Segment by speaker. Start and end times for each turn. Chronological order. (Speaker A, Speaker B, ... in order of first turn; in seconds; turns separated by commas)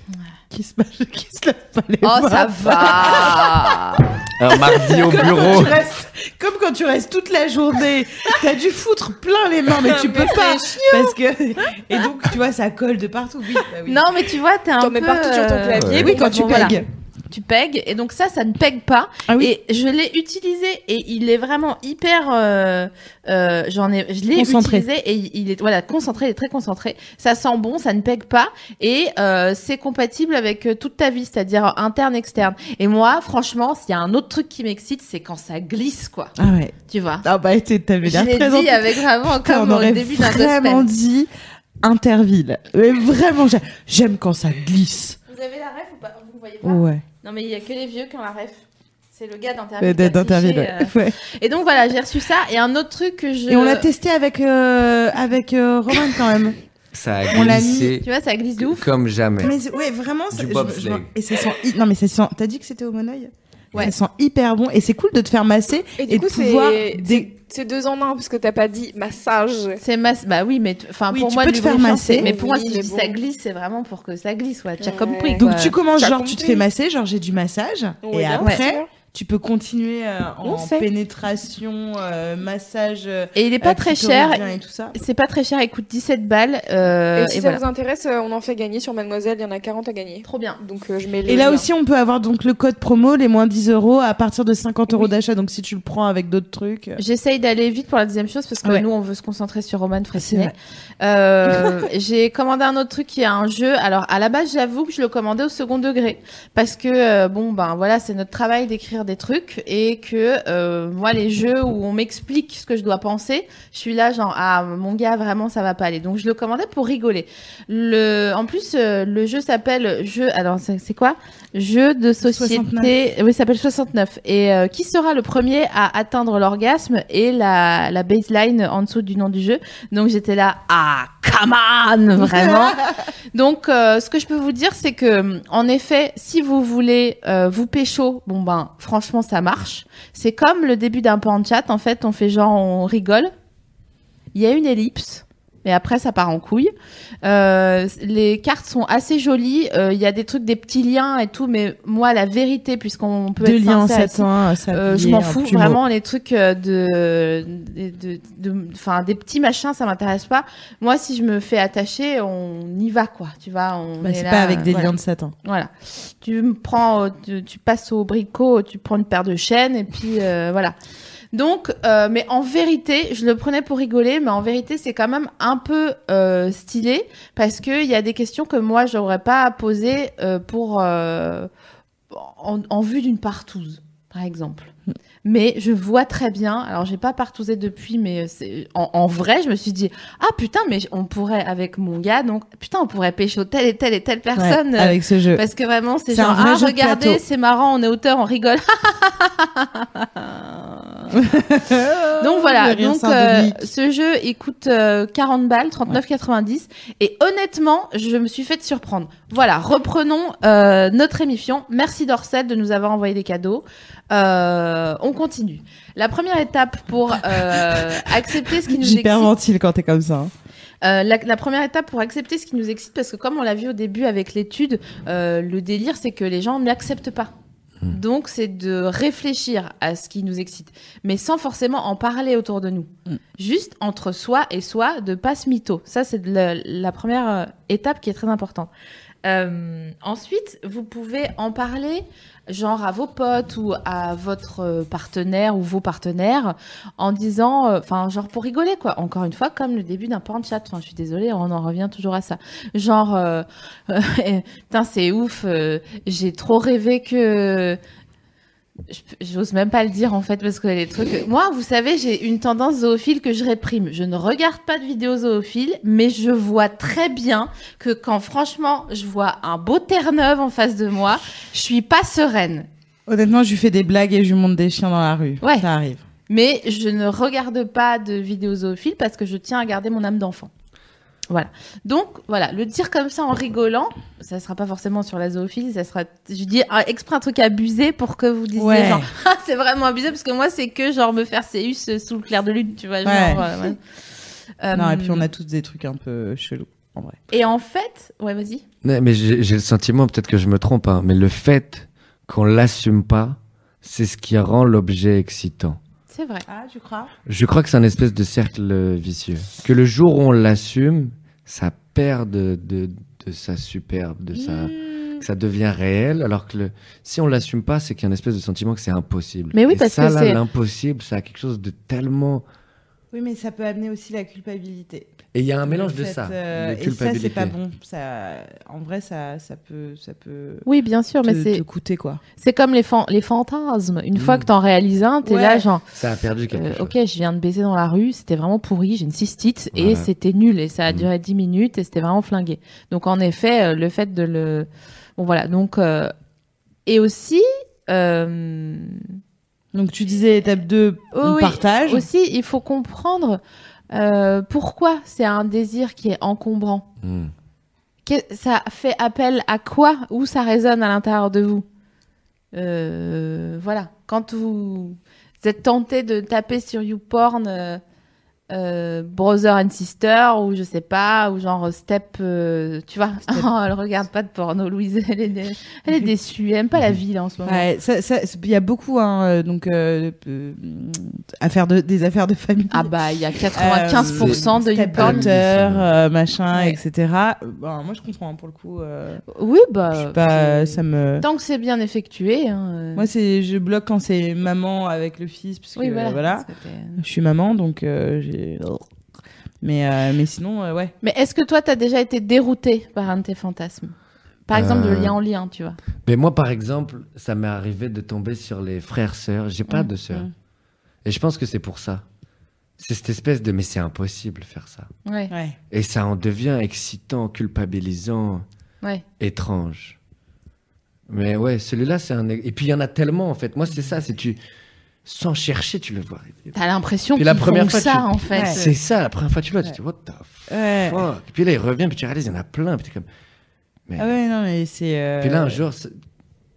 Speaker A: 0.5-14.1, Speaker B: 2.0-4.1, Speaker C: 4.3-5.8, Speaker D: 9.8-11.2, Speaker B: 13.9-36.3, Speaker D: 14.8-16.8, Speaker C: 15.8-16.1, Speaker A: 15.9-16.9, Speaker A: 19.3-19.5, Speaker A: 24.3-24.9, Speaker A: 36.4-41.3, Speaker B: 36.9-37.2, Speaker B: 38.0-40.9, Speaker A: 41.8-45.2, Speaker B: 45.3-53.9, Speaker A: 46.6-47.0, Speaker A: 49.8-51.2, Speaker A: 53.5-56.6, Speaker C: 56.9-58.1, Speaker A: 57.3-58.0, Speaker B: 58.0-58.9, Speaker C: 58.6-59.5, Speaker A: 59.4-67.3, Speaker C: 60.3-61.1, Speaker D: 66.0-69.8, Speaker B: 69.8-75.8, Speaker A: 71.1-72.3, Speaker D: 72.2-73.2, Speaker D: 74.8-76.6, Speaker A: 75.4-85.0, Speaker D: 78.0-78.9, Speaker D: 80.4-80.9, Speaker B: 83.3-87.6, Speaker D: 87.2-91.7, Speaker B: 90.2-90.6, Speaker A: 91.3-97.0, Speaker B: 97.0-132.8, Speaker A: 100.2-100.5, Speaker A: 122.2-122.9, Speaker A: 132.2-132.9, Speaker B: 133.3-143.3, Speaker B: 144.3-146.7, Speaker B: 147.2-170.8, Speaker A: 153.4-155.8, Speaker A: 164.0-165.3, Speaker B: 171.3-181.5, Speaker B: 182.1-184.7, Speaker B: 185.2-201.2, Speaker A: 194.3-195.4, Speaker A: 196.1-197.2, Speaker A: 201.2-203.6, Speaker B: 202.2-219.3, Speaker A: 217.4-218.1, Speaker A: 218.6-220.3, Speaker B: 220.8-227.3, Speaker B: 227.9-238.7, Speaker B: 239.2-257.8, Speaker B: 258.9-272.7, Speaker A: 273.1-276.0, Speaker B: 276.3-280.5, Speaker B: 281.3-293.8, Speaker A: 288.6-289.1, Speaker A: 293.1-293.5, Speaker B: 294.6-295.2, Speaker A: 294.7-297.2, Speaker B: 297.3-298.6, Speaker C: 298.8-305.8, Speaker B: 306.1-306.5, Speaker A: 306.5-307.1, Speaker C: 307.3-322.4, Speaker A: 314.3-315.2, Speaker B: 319.5-320.4, Speaker A: 323.1-325.1, Speaker C: 325.3-327.6, Speaker A: 325.7-330.6, Speaker B: 330.6-331.6, Speaker A: 331.2-332.2, Speaker B: 332.4-335.8, Speaker C: 334.1-334.5, Speaker A: 335.2-335.7, Speaker C: 335.9-336.9, Speaker B: 336.5-346.1, Speaker C: 339.7-340.1, Speaker B: 346.9-349.1, Speaker A: 349.7-352.1, Speaker B: 351.1-353.4, Speaker B: 353.9-356.9, Speaker C: 357.0-357.3, Speaker B: 358.1-361.7, Speaker B: 362.5-367.8, Speaker B: 368.5-377.7, Speaker A: 377.5-382.9, Speaker B: 382.7-385.3, Speaker A: 383.6-389.2, Speaker C: 384.0-384.4, Speaker C: 384.9-385.9, Speaker B: 386.5-386.8, Speaker B: 389.3-393.1, Speaker A: 389.9-391.2, Speaker A: 393.0-396.5, Speaker B: 395.8-397.0, Speaker A: 397.0-398.9, Speaker A: 399.6-400.9, Speaker B: 401.0-403.9, Speaker B: 404.5-405.8, Speaker C: 404.5-405.2, Speaker C: 406.1-410.3, Speaker C: 411.1-412.0, Speaker C: 412.8-414.9, Speaker B: 415.1-415.3, Speaker A: 415.3-415.6, Speaker C: 415.7-418.4, Speaker C: 419.2-420.0, Speaker C: 421.1-424.4, Speaker C: 425.1-426.6, Speaker B: 426.5-428.8, Speaker C: 427.2-433.1, Speaker A: 430.5-431.0, Speaker A: 434.0-435.6, Speaker C: 435.2-435.9